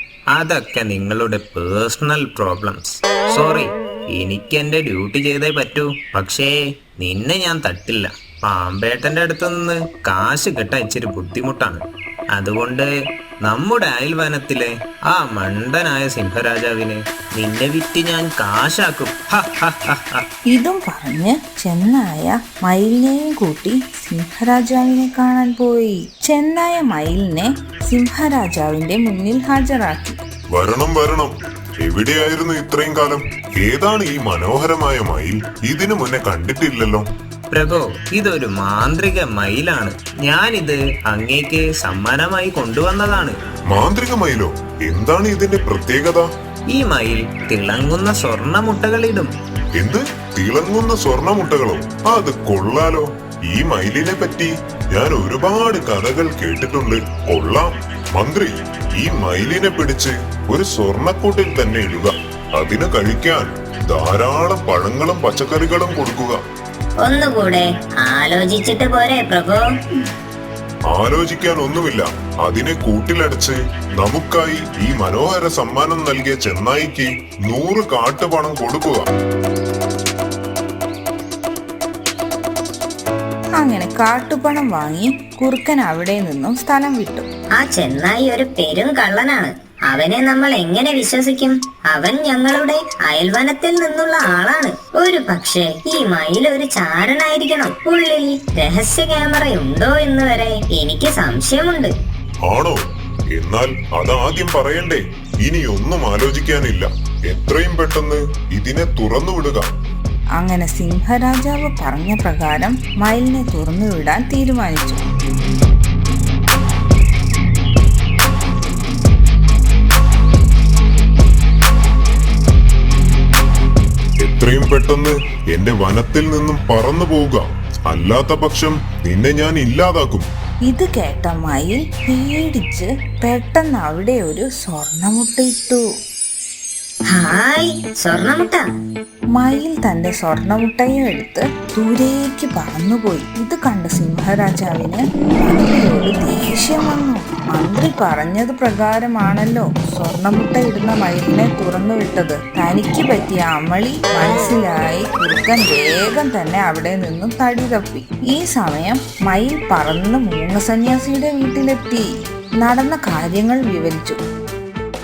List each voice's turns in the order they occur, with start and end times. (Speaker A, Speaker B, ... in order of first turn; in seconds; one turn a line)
Speaker A: 0.3-11.8
Speaker A: 12.3-12.9
Speaker A: 13.4-20.2
Speaker B: 20.5-30.2
Speaker C: 30.5-37.1
Speaker A: 37.5-43.3
Speaker C: 43.7-46.3
Speaker A: 46.7-49.3
Speaker C: 49.8-66.4
Speaker D: 67.0-69.7
Speaker C: 70.9-79.0
Speaker B: 83.6-87.3
Speaker D: 87.6-101.9
Speaker C: 102.5-102.8
Speaker C: 103.3-109.7
Speaker B: 110.4-115.0
Speaker C: 124.2-130.2
Speaker B: 130.7-135.8
Speaker D: 137.1-138.6
Speaker B: 139.3-162.1
Speaker B: 162.6-164.2